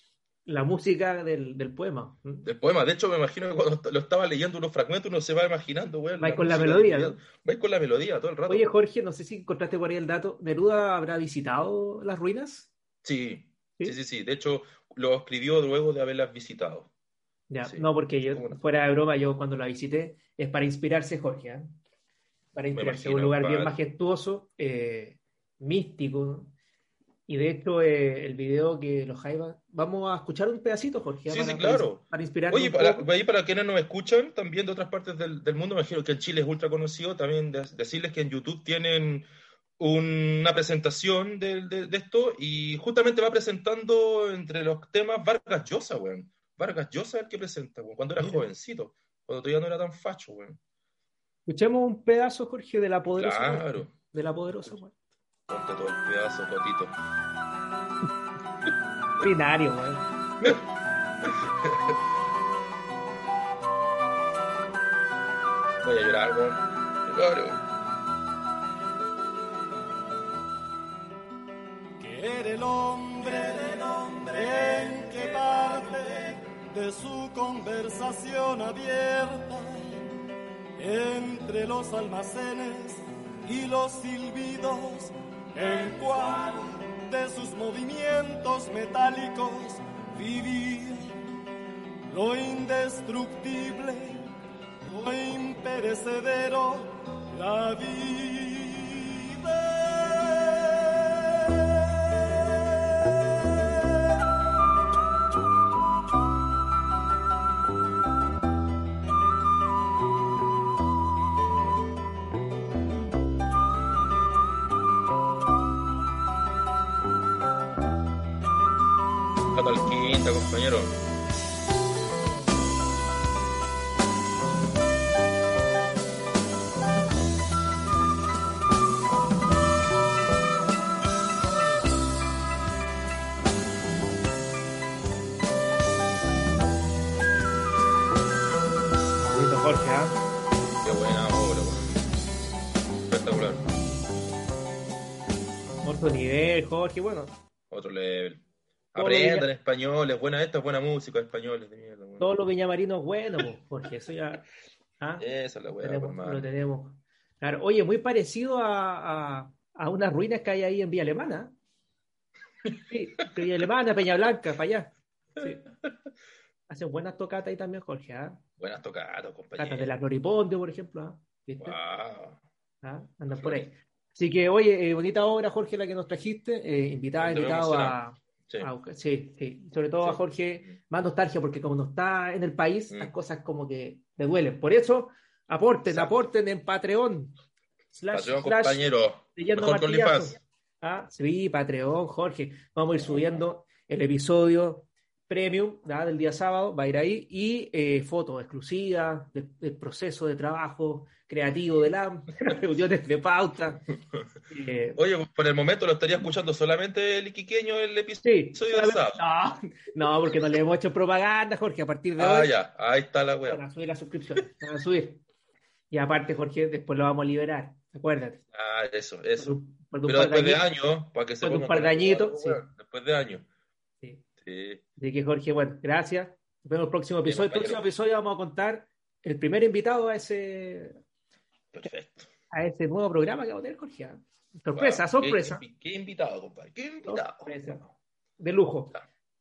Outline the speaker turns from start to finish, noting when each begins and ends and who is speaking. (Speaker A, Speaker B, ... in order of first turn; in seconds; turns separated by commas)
Speaker A: 0.5-2.5, Speaker B: 2.5-8.7, Speaker A: 6.2-7.2, Speaker A: 8.5-12.7, Speaker B: 13.0-16.9, Speaker A: 17.5-21.7, Speaker B: 17.6-18.6, Speaker A: 22.6-26.5, Speaker B: 22.7-23.8, Speaker A: 27.3-33.1, Speaker B: 31.3-39.3, Speaker B: 39.8-50.6, Speaker A: 48.2-48.4, Speaker A: 51.5-55.0, Speaker B: 53.1-53.9, Speaker B: 55.5-57.0, Speaker A: 59.2-60.6, Speaker B: 61.2-61.8, Speaker B: 65.8-67.6, Speaker C: 72.0-80.1, Speaker C: 80.8-91.3, Speaker C: 92.1-94.3, Speaker C: 94.8-101.4, Speaker B: 119.5-121.0, Speaker A: 139.2-140.2, Speaker B: 140.8-142.1, Speaker B: 143.1-143.7, Speaker A: 145.8-147.4, Speaker B: 147.7-152.3, Speaker A: 149.0-149.5, Speaker A: 152.2-154.4, Speaker A: 155.0-155.3, Speaker B: 155.2-156.5, Speaker A: 155.8-161.5, Speaker A: 162.9-165.7, Speaker A: 166.7-168.4, Speaker B: 168.6-169.9, Speaker A: 169.6-171.8, Speaker B: 171.6-172.4, Speaker A: 172.8-187.4, Speaker B: 173.3-173.7, Speaker B: 177.2-178.7, Speaker B: 180.0-180.8, Speaker B: 185.9-186.1, Speaker A: 187.9-188.8, Speaker B: 188.1-190.4, Speaker A: 189.3-203.9, Speaker B: 192.9-193.4, Speaker A: 204.5-205.0, Speaker B: 205.0-209.2, Speaker A: 208.2-212.5, Speaker B: 212.2-213.6, Speaker A: 213.5-215.2, Speaker A: 215.9-218.4, Speaker B: 218.5-223.5, Speaker A: 219.4-220.7, Speaker A: 221.4-222.6, Speaker B: 224.4-224.8, Speaker A: 225.0-231.0, Speaker B: 227.2-227.8, Speaker B: 231.7-232.3, Speaker A: 232.5-235.6, Speaker B: 234.8-237.9, Speaker A: 237.1-237.8, Speaker A: 238.4-239.0